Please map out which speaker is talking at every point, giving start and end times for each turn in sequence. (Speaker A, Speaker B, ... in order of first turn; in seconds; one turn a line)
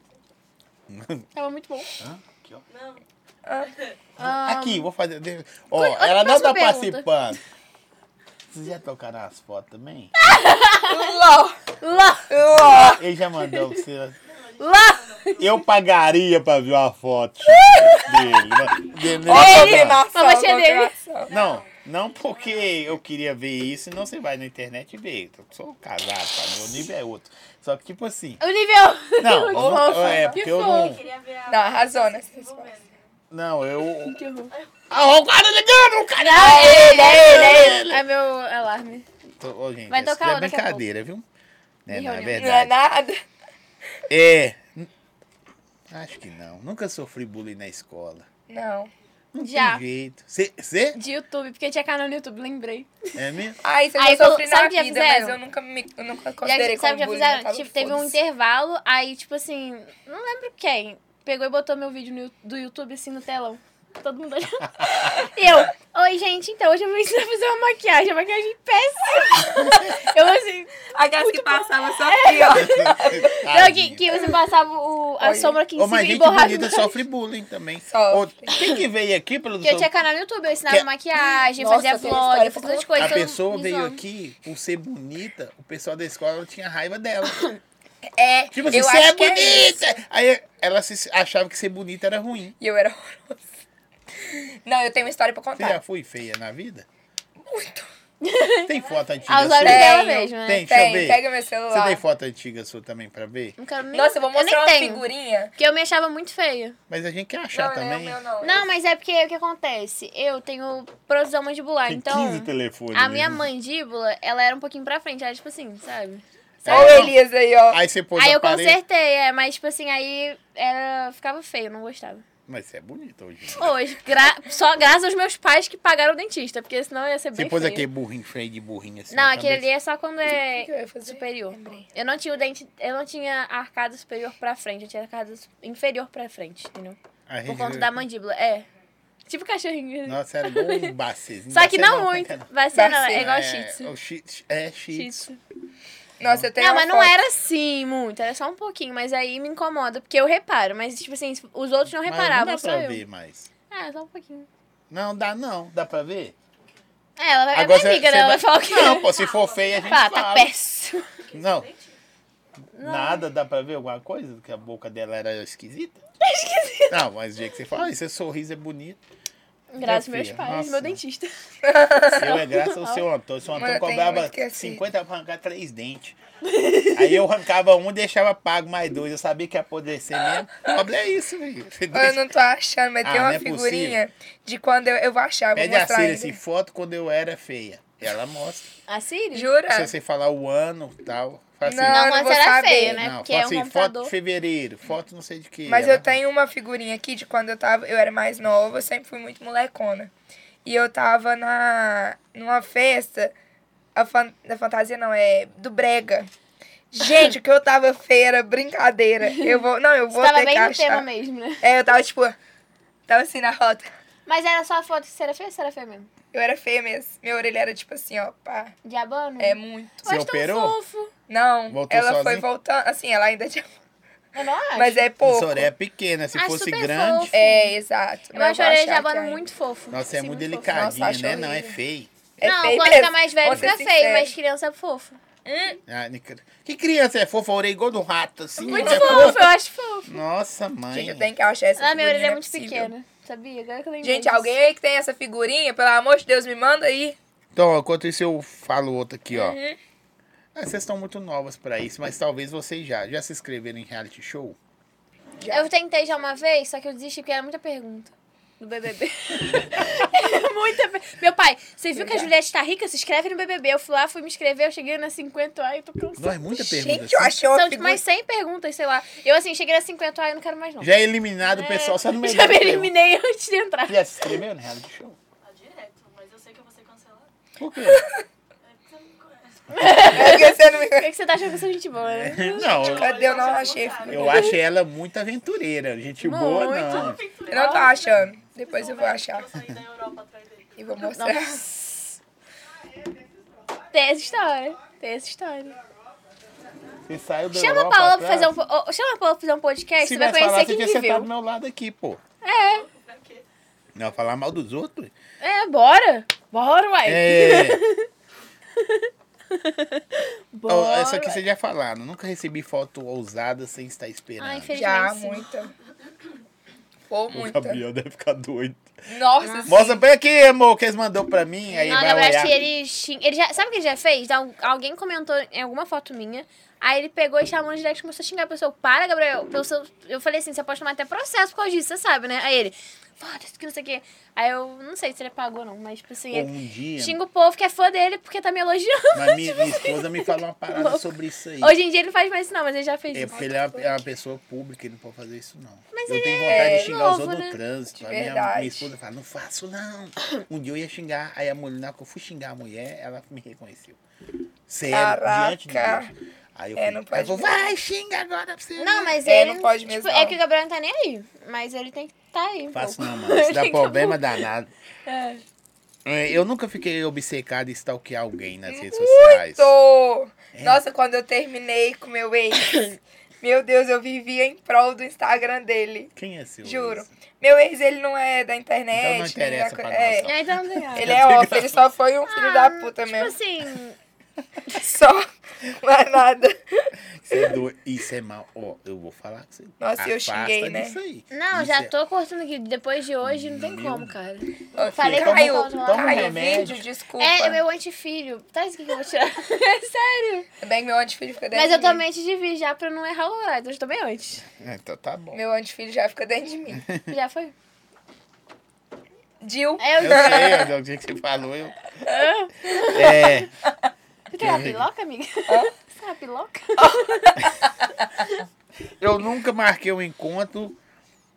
Speaker A: 0.9-1.2
Speaker B: 1.3-1.9
Speaker A: 2.0-2.6
Speaker C: 2.7-3.0
Speaker C: 3.7-4.0
Speaker B: 4.2-4.9
Speaker A: 4.2-7.4
Speaker B: 5.7-7.1
Speaker A: 8.5-10.1
Speaker B: 10.2-11.1
Speaker D: 10.9-11.6
Speaker B: 11.8-12.3
Speaker D: 12.3-13.0
Speaker A: 12.5-14.2
Speaker B: 13.4-13.7
Speaker C: 14.2-15.7
Speaker B: 14.6-15.4
Speaker A: 15.4-20.0
Speaker B: 17.6-17.9
Speaker C: 18.0-19.2
Speaker B: 19.3-20.9
Speaker D: 19.3-21.3
Speaker C: 21.2-22.8
Speaker A: 21.3-28.4
Speaker B: 28.4-30.9
Speaker A: 29.2-31.0
Speaker D: 29.6-30.1
Speaker C: 30.2-33.1
Speaker D: 31.5-32.7
Speaker A: 33.3-34.2
Speaker B: 34.0-34.5
Speaker A: 34.9-38.0
Speaker B: 36.2-39.1
Speaker D: 36.4-37.8
Speaker A: 39.4-41.2
Speaker B: 39.9-40.8
Speaker A: 41.9-42.7
Speaker B: 41.9-42.4
Speaker D: 42.4-43.2
Speaker A: 44.1-44.9
Speaker A: 45.9-48.3
Speaker D: 48.5-48.9
Speaker A: 49.3-51.0
Speaker B: 49.4-49.8
Speaker B: 51.0-53.1
Speaker A: 53.1-53.6
Speaker D: 53.6-58.1
Speaker B: 54.0-55.4
Speaker B: 56.4-76.9
Speaker A: 57.9-58.1
Speaker A: 64.8-65.3
Speaker D: 70.9-73.4
Speaker A: 72.5-74.1
Speaker D: 75.2-75.6
Speaker A: 75.7-79.9
Speaker D: 77.9-78.5
Speaker B: 79.6-84.0
Speaker D: 81.3-83.3
Speaker A: 83.0-87.4
Speaker D: 88.2-89.8
Speaker A: 88.5-92.5
Speaker D: 92.6-93.4
Speaker D: 94.2-95.8
Speaker A: 95.6-96.9
Speaker D: 97.5-97.9
Speaker B: 98.2-98.7
Speaker A: 98.7-103.6
Speaker C: 98.7-99.4
Speaker B: 99.3-100.7
Speaker D: 99.6-102.0
Speaker B: 103.6-105.1
Speaker D: 103.9-105.5
Speaker B: 105.6-106.8
Speaker A: 106.9-108.2
Speaker D: 107.5-108.7
Speaker B: 108.4-117.1
Speaker A: 111.9-113.5
Speaker A: 116.6-117.2
Speaker D: 116.7-117.8
Speaker A: 117.7-118.8
Speaker B: 118.2-122.2
Speaker A: 122.5-123.8
Speaker B: 123.5-127.9
Speaker A: 127.3-129.7
Speaker B: 129.1-138.7
Speaker D: 130.5-131.9
Speaker A: 137.3-138.0
Speaker B: 139.3-140.9
Speaker A: 140.1-142.5
Speaker B: 141.5-143.9
Speaker D: 142.7-143.3
Speaker A: 143.1-145.3
Speaker B: 144.9-145.4
Speaker D: 146.2-147.2
Speaker B: 146.6-153.0
Speaker A: 152.0-153.5
Speaker B: 153.7-154.5
Speaker A: 154.9-156.3
Speaker B: 157.2-159.1
Speaker A: 157.5-160.5
Speaker C: 158.9-160.0
Speaker B: 159.9-161.1
Speaker C: 161.2-162.0
Speaker A: 161.3-161.7
Speaker B: 162.7-163.2
Speaker A: 162.8-166.0
Speaker B: 166.2-167.0
Speaker A: 166.9-169.0
Speaker B: 169.7-171.3
Speaker A: 169.8-171.0
Speaker D: 171.6-172.3
Speaker B: 172.1-173.0
Speaker A: 172.2-176.2
Speaker D: 173.6-174.8
Speaker B: 176.4-177.2
Speaker A: 176.9-182.2
Speaker D: 181.9-186.4
Speaker A: 183.0-184.0
Speaker A: 185.6-188.7
Speaker B: 188.9-189.5
Speaker D: 189.3-189.9
Speaker A: 189.7-192.2
Speaker D: 191.6-193.0
Speaker B: 191.8-194.1
Speaker A: 193.0-196.1
Speaker D: 195.7-200.1
Speaker D: 200.7-203.3
Speaker D: 203.9-206.3
Speaker D: 206.9-211.1
Speaker B: 210.1-211.6
Speaker D: 211.6-212.4
Speaker D: 213.1-213.9
Speaker B: 214.3-216.1
Speaker D: 216.3-218.7
Speaker B: 218.8-221.1
Speaker D: 219.4-220.1
Speaker A: 220.0-220.8
Speaker D: 221.3-223.7
Speaker A: 221.7-222.4
Speaker B: 224.3-225.1
Speaker D: 224.7-225.7
Speaker A: 225.2-227.3
Speaker B: 226.3-227.7
Speaker D: 227.3-229.4
Speaker B: 228.3-230.9
Speaker A: 229.9-232.1
Speaker D: 230.7-231.8
Speaker D: 232.4-234.3
Speaker B: 232.4-235.2
Speaker A: 233.4-233.7
Speaker D: 235.4-235.8
Speaker A: 235.9-239.5
Speaker B: 238.6-240.2
Speaker D: 238.7-239.5
Speaker A: 240.1-241.3
Speaker D: 240.9-242.9
Speaker B: 241.8-244.5
Speaker D: 244.0-247.2
Speaker A: 247.6-249.6
Speaker D: 249.3-249.8
Speaker A: 250.6-254.6
Speaker D: 255.4-255.7
Speaker B: 255.5-266.4
Speaker D: 261.9-262.3
Speaker A: 266.2-267.4
Speaker D: 266.6-268.0
Speaker B: 267.5-270.9
Speaker A: 270.8-272.9
Speaker B: 271.4-274.3
Speaker A: 273.9-275.2
Speaker C: 275.4-277.3
Speaker A: 277.6-278.1
Speaker D: 277.9-278.2
Speaker C: 278.6-280.0
Speaker B: 279.7-282.7
Speaker D: 280.1-281.1
Speaker A: 282.0-283.4
Speaker C: 282.6-284.6
Speaker D: 282.8-284.5
Speaker A: 284.1-287.2
Speaker B: 286.2-287.9
Speaker C: 286.9-290.8
Speaker D: 287.5-289.5
Speaker D: 290.8-291.6
Speaker B: 291.0-292.2
Speaker B: 293.9-295.8
Speaker A: 297.1-298.6
Speaker B: 297.5-301.3
Speaker A: 300.0-302.2
Speaker B: 302.4-302.9
Speaker C: 302.5-303.4
Speaker A: 303.9-305.1
Speaker B: 305.4-308.1
Speaker A: 307.1-307.8
Speaker B: 308.8-311.4
Speaker A: 310.7-314.7
Speaker B: 314.4-315.4
Speaker D: 314.7-315.7
Speaker D: 317.1-317.8
Speaker A: 317.3-318.9
Speaker D: 319.1-320.0
Speaker B: 319.4-319.7
Speaker A: 319.6-322.6
Speaker B: 321.7-343.4
Speaker A: 336.3-337.2
Speaker A: 339.1-341.8
Speaker A: 343.1-354.0
Speaker D: 343.3-343.9
Speaker B: 345.9-347.6
Speaker D: 346.5-346.9
Speaker D: 348.0-348.9
Speaker A: 354.7-359.1
Speaker D: 354.9-356.1
Speaker D: 356.8-357.7
Speaker B: 358.8-364.4
Speaker D: 359.2-360.4
Speaker A: 362.7-364.7
Speaker B: 365.1-365.4
Speaker A: 366.1-369.7
Speaker D: 368.7-376.1
Speaker A: 370.5-370.8
Speaker A: 376.2-377.1
Speaker D: 376.6-380.3
Speaker A: 378.9-381.8
Speaker B: 380.2-381.1
Speaker D: 380.9-383.4
Speaker B: 382.3-383.9
Speaker D: 384.7-387.6
Speaker A: 387.1-391.9
Speaker D: 389.8-391.0
Speaker B: 391.3-396.6
Speaker A: 393.2-394.1
Speaker A: 394.7-396.8
Speaker D: 394.7-397.6
Speaker B: 397.2-400.5
Speaker D: 400.6-402.0
Speaker B: 401.5-404.4
Speaker A: 404.6-405.4
Speaker D: 405.3-406.9
Speaker A: 406.7-407.1
Speaker B: 407.1-407.5
Speaker D: 409.4-410.7
Speaker B: 409.8-410.7
Speaker A: 410.0-411.8
Speaker B: 412.1-413.4
Speaker A: 412.7-413.5
Speaker B: 414.3-417.5
Speaker A: 414.4-414.9
Speaker D: 416.8-417.3
Speaker A: 419.0-420.8